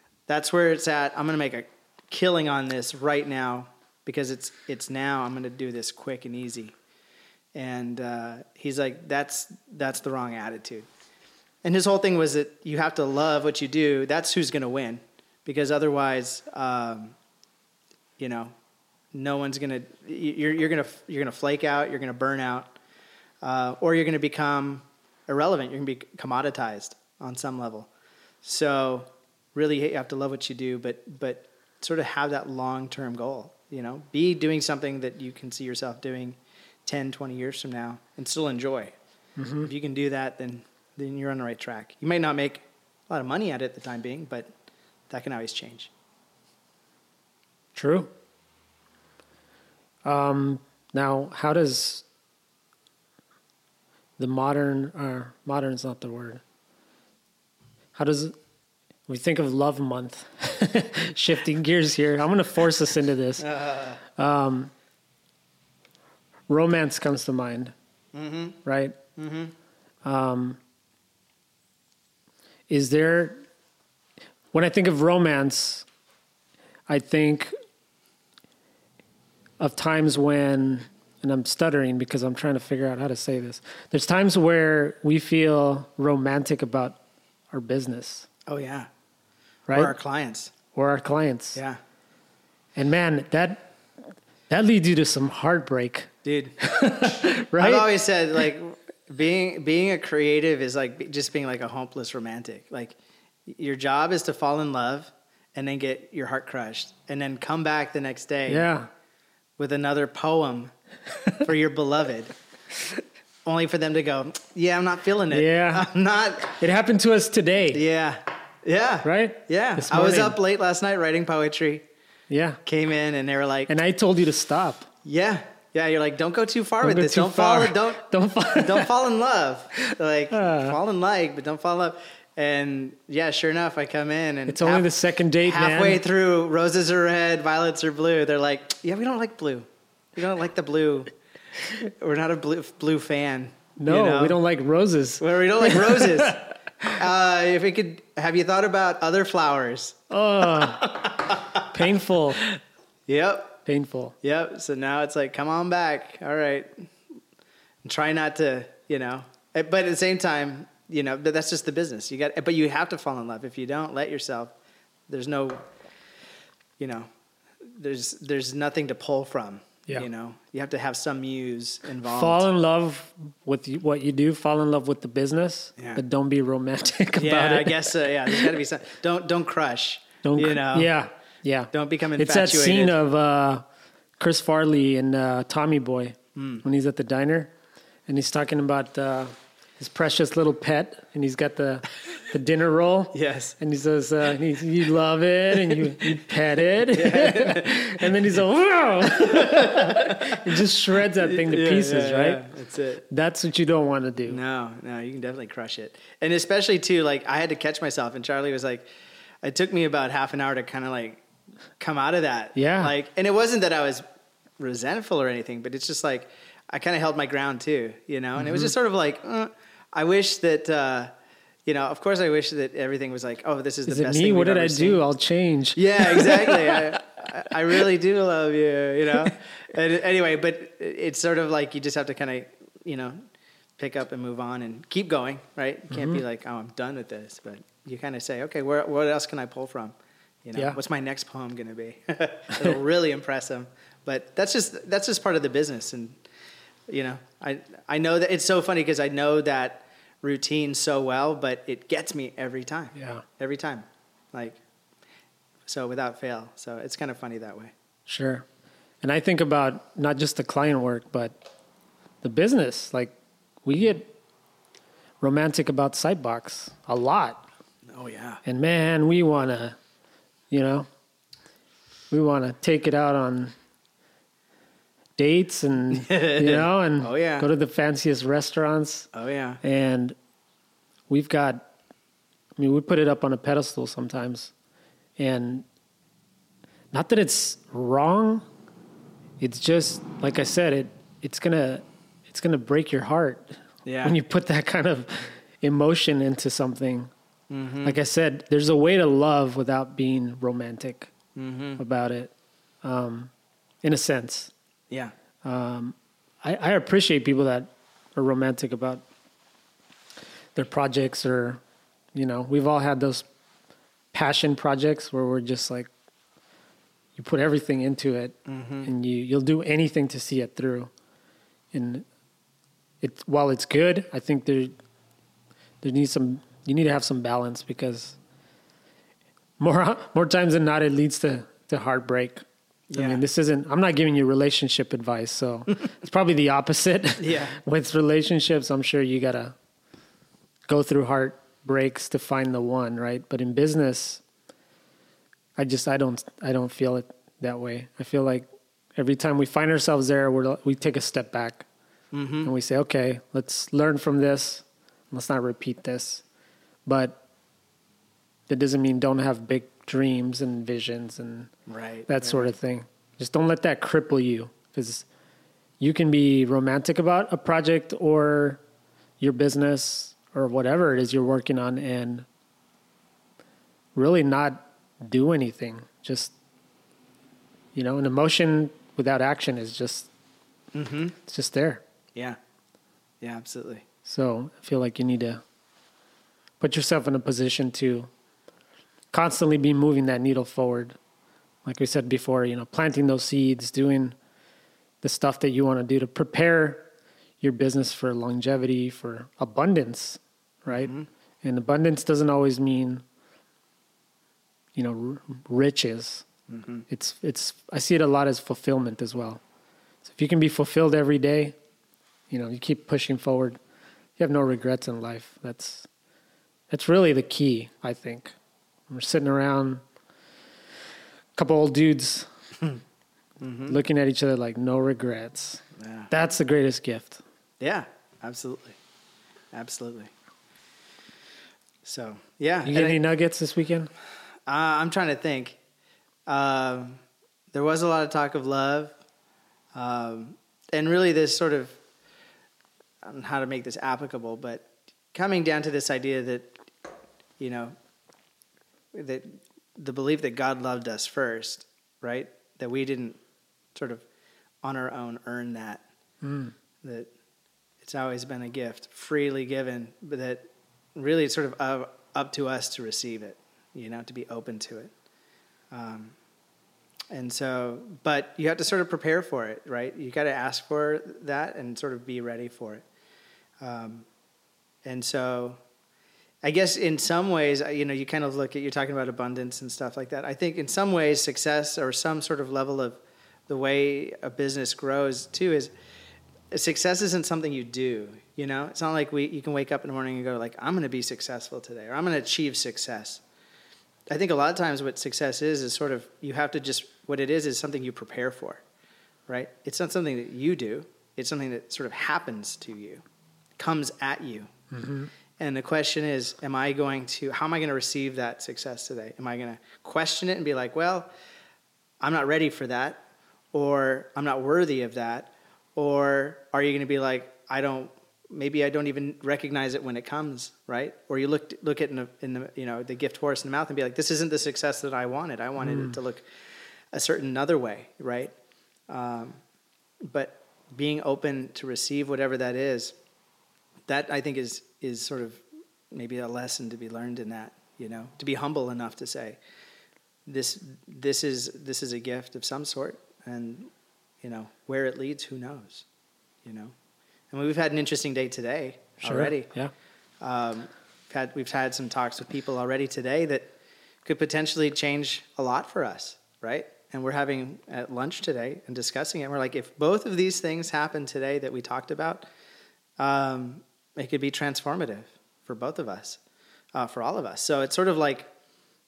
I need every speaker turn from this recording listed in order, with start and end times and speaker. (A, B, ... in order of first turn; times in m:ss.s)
0:00.3-0:06.8 A
0:07.5-0:10.9 A
0:11.6-0:17.1 A
0:18.2-0:18.5 A
0:19.1-0:22.8 A
0:23.4-0:27.9 A
0:28.4-0:38.9 A
0:39.4-0:39.7 B
0:39.6-0:44.5 A
0:45.1-0:45.9 A
0:47.8-0:48.1 B
0:50.0-0:52.0 B
0:54.2-0:56.4 B
0:58.0-0:58.3 B
0:59.1-1:03.5 B
1:03.4-1:04.0 A
1:04.1-1:04.7 B
1:06.5-1:07.7 B
1:08.1-1:08.6 A
1:08.6-1:09.0 B
1:09.2-1:09.5 A
1:10.0-1:10.6 B
1:12.7-1:13.4 B
1:14.5-1:15.9 B
1:16.9-1:17.5 B
1:19.6-1:27.0 B
1:27.5-1:28.3 B
1:28.5-1:28.9 A
1:29.7-1:29.9 B
1:29.7-1:30.5 A
1:30.7-1:31.6 B
1:32.8-1:33.7 B
1:34.5-1:37.9 B
1:36.2-1:48.7 A
1:48.5-1:48.9 B
1:49.6-1:50.7 A
1:51.4-1:52.3 A
1:53.4-1:56.5 A
1:55.3-1:57.8 B
1:57.7-2:01.8 A
1:59.0-2:00.4 B
2:02.3-2:02.6 B
2:02.6-2:03.7 A
2:03.7-2:04.9 B
2:05.0-2:14.9 A
2:06.8-2:08.9 B
2:09.8-2:10.8 B
2:14.5-2:16.0 B
2:15.4-2:21.1 A
2:21.7-2:24.4 A
2:23.8-2:26.5 B
2:25.2-2:31.7 A
2:30.1-2:32.4 B
2:32.4-2:33.6 A
2:33.7-2:34.1 B
2:34.2-2:36.9 A
2:37.8-2:44.5 A
2:45.1-2:45.6 A
2:46.8-2:47.1 A
2:47.6-2:52.5 A
2:52.0-2:58.5 B
2:55.8-2:56.0 A
2:57.2-3:00.9 A
3:00.2-3:03.6 B
3:01.7-3:03.0 A
3:04.2-3:07.5 B
3:06.4-3:06.6 A
3:08.1-3:22.4 B
3:13.1-3:13.6 A
3:15.7-3:16.1 A
3:16.9-3:18.1 A
3:19.0-3:23.0 A
3:23.1-3:24.4 B
3:24.3-3:28.9 A
3:29.4-3:31.2 A
3:31.8-3:34.0 A
3:32.6-3:32.9 B
3:34.6-3:41.1 A
3:38.4-3:38.7 B
3:41.7-3:45.0 A
3:43.9-3:47.0 B
3:45.8-3:53.2 A
3:53.8-4:06.2 A
3:55.9-3:56.2 B
4:06.9-4:14.6 A
4:13.0-4:13.2 B
4:15.7-4:17.7 A
4:18.1-4:18.5 B
4:19.0-4:21.4 B
4:22.2-4:23.1 B
4:23.6-4:24.1 B
4:25.2-4:27.4 B
4:27.9-4:28.4 A
4:28.4-4:29.8 B
4:30.5-4:30.9 B
4:32.1-4:33.5 B
4:35.2-4:39.1 B
4:35.9-4:37.5 A
4:39.1-4:39.6 A
4:39.6-4:40.1 B
4:41.1-4:41.6 B
4:42.6-4:44.5 B
4:45.2-4:45.6 B
4:46.9-4:48.4 B
4:49.4-4:57.1 B
4:53.8-4:54.2 A
4:57.5-4:58.0 A
4:57.8-5:01.1 B
5:01.4-5:01.8 A
5:01.8-5:02.3 B
5:02.8-5:03.3 B
5:03.8-5:04.5 B
5:05.4-5:09.0 B
5:10.6-5:11.6 B
5:12.1-5:13.2 B
5:14.1-5:15.9 B
5:17.2-5:20.9 B
5:18.5-5:18.9 A
5:21.7-5:22.0 B
5:23.0-5:24.7 B
5:25.8-5:28.2 B
5:29.6-5:32.4 B
5:32.9-5:33.2 A
5:33.0-5:39.6 B
5:37.2-5:37.6 A
5:40.7-5:44.2 B
5:45.6-5:51.7 B
5:52.1-5:52.5 A
5:52.4-5:56.2 B
5:56.9-5:57.2 B
5:58.5-6:01.5 B
6:01.7-6:02.5 A
6:02.1-6:05.1 B
6:05.8-6:08.6 B
6:09.2-6:12.2 B
6:14.0-6:16.3 B
6:17.8-6:20.1 B
6:20.7-6:21.2 A
6:21.2-6:21.8 B
6:23.2-6:23.8 A
6:24.0-6:25.4 B
6:26.6-6:28.1 B
6:29.1-6:31.0 B
6:31.6-6:34.1 B
6:35.0-6:36.9 B
6:37.4-6:43.0 B
6:40.7-6:41.1 A
6:44.8-6:46.2 B
6:46.5-6:46.8 A
6:46.9-6:49.4 B
6:50.0-6:51.6 B
6:52.3-6:53.6 B
6:54.2-6:55.9 B
6:56.7-6:58.4 B
6:58.9-6:59.8 B
7:01.4-7:02.3 B
7:03.4-7:03.8 A
7:03.7-7:07.2 B
7:05.8-7:06.1 A
7:07.6-7:08.8 A
7:09.5-7:10.1 A
7:11.8-7:13.0 A
7:12.6-7:13.9 B
7:14.5-7:15.6 A
7:16.3-7:17.0 A
7:17.5-7:19.0 A
7:19.7-7:21.8 A
7:23.0-7:26.6 A
7:27.4-7:27.7 A
7:28.9-7:33.2 A
7:33.8-7:34.0 A
7:34.6-7:35.8 A
7:36.2-7:36.5 B
7:36.8-7:37.1 A
7:37.8-7:40.4 A
7:40.9-7:44.9 A
7:45.7-7:46.1 A
7:47.1-7:52.8 A
7:53.6-7:54.1 A
7:54.8-7:55.6 A
7:56.4-8:05.7 A
8:06.5-8:13.2 A
8:14.1-8:18.6 A
8:19.3-8:23.0 A
8:23.6-8:24.5 A
8:24.7-8:25.1 B
8:25.4-8:31.1 A
8:32.0-8:46.3 A
8:45.6-8:46.0 B
8:46.9-8:48.3 A
8:48.9-8:49.4 A
8:50.0-8:53.0 A
8:53.9-8:59.4 A
9:00.3-9:03.7 A
9:04.2-9:05.9 A
9:06.4-9:06.7 A
9:07.3-9:09.5 A
9:09.0-9:09.7 B
9:10.2-9:13.5 A
9:14.0-9:22.3 A
9:23.0-9:26.2 A
9:26.8-9:28.3 A